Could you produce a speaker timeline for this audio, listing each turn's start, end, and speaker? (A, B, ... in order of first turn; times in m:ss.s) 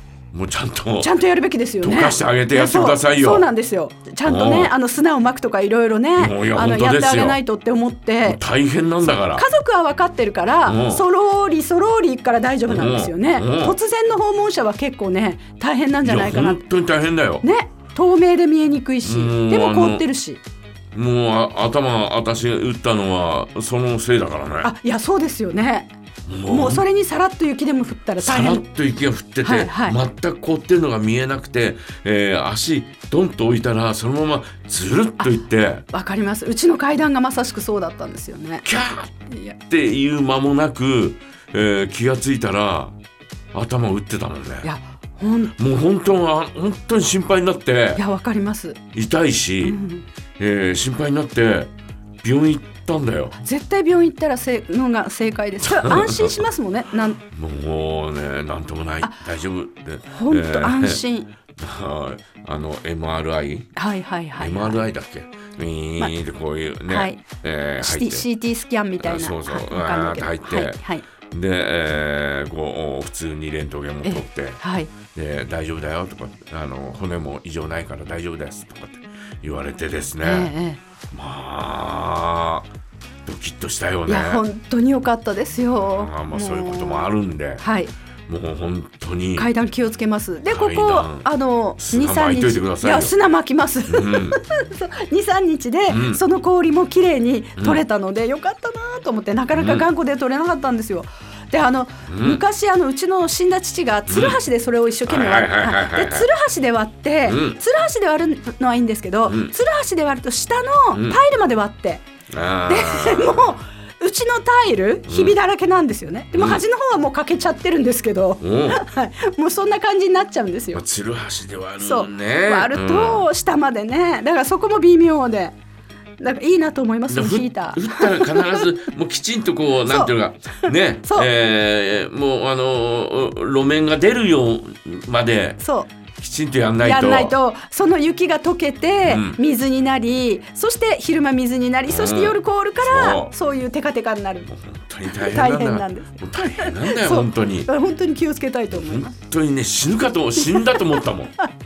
0:00.3-0:01.1 A
0:01.0-0:08.4 B
0:01.8-0:03.5 A
0:04.2-0:04.7 A
0:06.2-0:07.4 A
0:08.2-0:09.5 A
0:09.1-0:16.6 B
0:10.7-0:11.0 A
0:12.7-0:13.8 A
0:16.0-0:17.5 A
0:17.4-0:20.4 B
0:19.0-0:20.0 A
0:20.9-0:24.7 A
0:24.6-0:25.9 B
0:26.3-0:26.8 A
0:26.5-0:28.6 B
0:28.2-0:35.8 A
0:29.4-0:30.0 B
0:35.9-0:38.7 B
0:38.6-0:43.0 A
0:39.3-0:39.6 B
0:43.5-0:44.7 A
0:44.6-0:45.5 B
0:45.6-0:48.0 A
0:48.0-0:48.8 B
0:48.9-0:49.8 A
0:49.6-0:50.1 B
0:50.4-0:51.7 A
0:52.2-0:53.4 A
0:53.4-0:57.2 B
0:55.6-0:56.4 A
0:57.3-1:03.7 A
1:00.1-1:01.3 B
1:03.8-1:04.8 B
1:04.4-1:08.2 A
1:06.9-1:07.2 B
1:07.8-1:11.0 B
1:09.0-1:20.5 A
1:14.0-1:14.9 B
1:20.2-1:20.8 B
1:21.1-1:22.7 A
1:23.3-1:24.4 A
1:24.1-1:27.9 B
1:25.8-1:27.6 A
1:28.3-1:29.5 A
1:29.4-1:52.0 B
1:30.5-1:31.3 A
1:31.8-1:33.1 A
1:33.9-1:34.4 A
1:35.9-1:36.2 A
1:39.5-1:39.9 A
1:42.1-1:42.4 A
1:44.1-1:44.4 A
1:45.1-1:46.3 A
1:47.3-1:47.6 A
1:49.3-1:49.5 A
1:50.9-1:51.2 A
1:52.3-1:53.6 A
1:52.7-2:00.8 B
1:55.1-1:55.4 A
1:56.3-1:56.6 A
1:58.4-1:58.8 A
2:00.7-2:03.3 A
2:01.8-2:05.5 B
2:06.2-2:08.7 B
2:07.1-2:15.6 A
2:09.9-2:10.1 B
2:10.7-2:11.3 B
2:15.6-2:15.9 B
2:16.1-2:17.3 A
2:16.8-2:24.5 B
2:19.0-2:19.4 A
2:21.9-2:23.3 A
2:24.5-2:27.7 A
2:25.1-2:29.1 B
2:28.7-2:31.4 A
2:30.5-2:30.8 B